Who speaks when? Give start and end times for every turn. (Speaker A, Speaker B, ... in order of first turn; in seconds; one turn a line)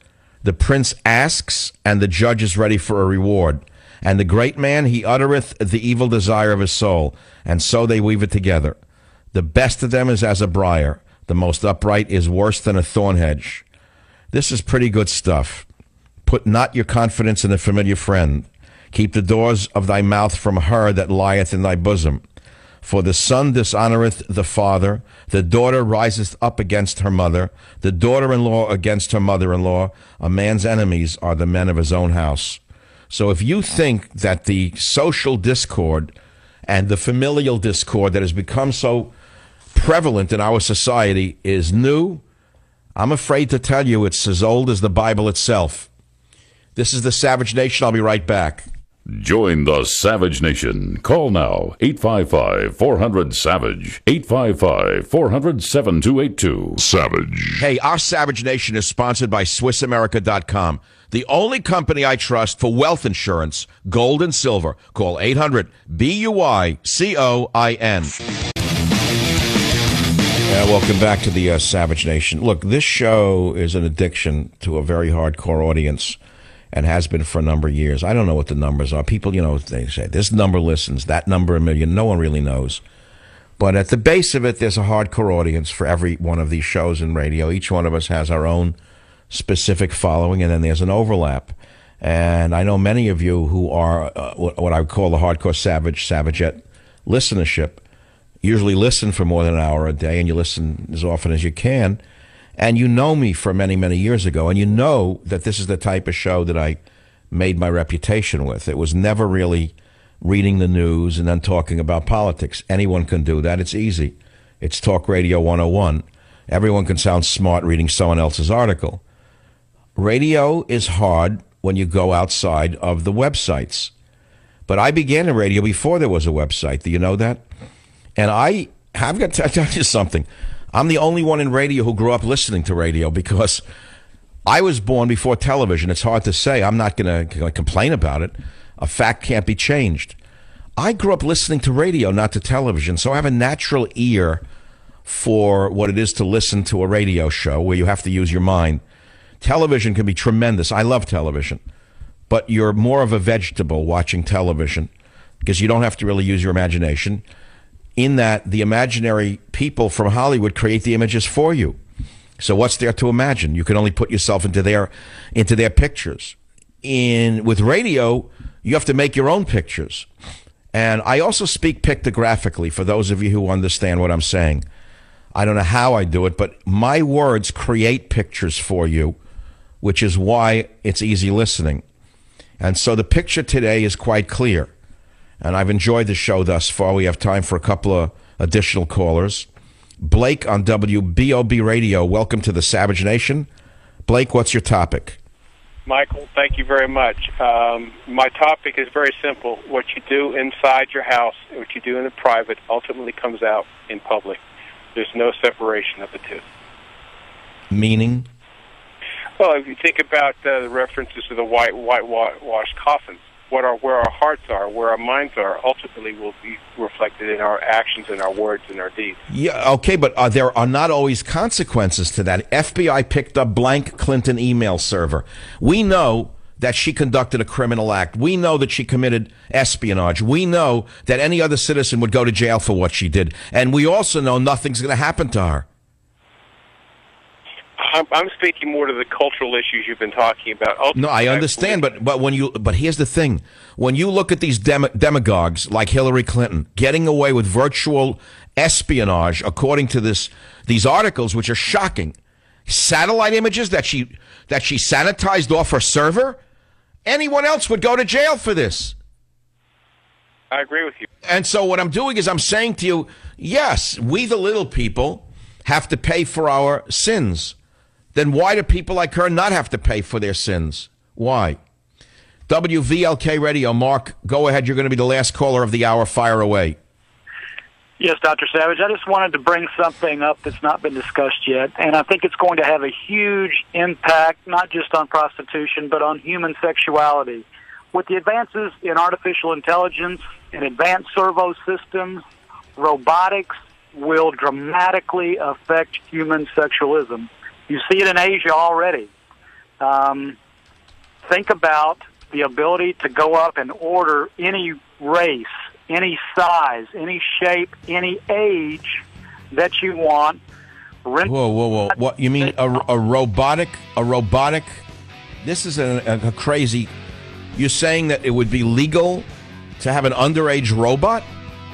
Speaker A: 0.4-8.8
Speaker A: 9.3-13.6
Speaker A: 14.3-15.7
Speaker A: 16.3-22.2
Speaker A: 22.8-36.1
Speaker A: 36.7-39.1
Speaker A: 39.7-42.2
Speaker A: 43.0-45.9
Speaker A: 46.8-48.7
Speaker B: 49.1-57.6
Speaker A: 57.6-68.2
Speaker A: 70.5-76.2
Speaker A: 76.7-82.8
Speaker A: 83.6-88.8
Speaker A: 89.3-97.8
Speaker A: 98.4-102.0
Speaker A: 102.6-106.8
Speaker A: 107.3-119.0
Speaker A: 120.0-123.9
Speaker A: 124.7-127.4
Speaker A: 128.2-133.6
Speaker A: 134.5-140.2
Speaker A: 140.8-144.4
Speaker A: 145.1-148.8
Speaker A: 149.4-151.6
Speaker A: 152.3-154.9
Speaker A: 155.4-157.2
Speaker A: 158.0-161.8
Speaker A: 162.4-170.1
Speaker A: 170.7-174.7
Speaker A: 175.3-179.2
Speaker A: 179.8-181.8
Speaker A: 182.6-184.7
Speaker A: 185.4-189.5
Speaker A: 190.0-193.5
Speaker A: 194.1-195.2
Speaker C: 195.9-204.4
Speaker C: 204.9-206.4
Speaker A: 207.7-208.3
Speaker C: 209.4-219.2
Speaker A: 219.3-235.7
Speaker C: 237.8-241.9
Speaker A: 240.9-252.2
Speaker A: 252.7-256.4
Speaker A: 257.1-258.9
Speaker C: 260.5-261.1
Speaker A: 261.2-267.6
Speaker A: 268.1-271.6
Speaker A: 272.5-276.8
Speaker D: 278.0-292.2
Speaker D: 292.8-299.1
Speaker D: 299.8-300.4
Speaker D: 301.3-309.0
Speaker D: 309.5-310.4
Speaker D: 311.1-311.4
Speaker A: 311.2-314.8
Speaker D: 311.9-312.5
Speaker A: 315.4-316.9
Speaker A: 317.6-319.2
Speaker A: 319.8-321.3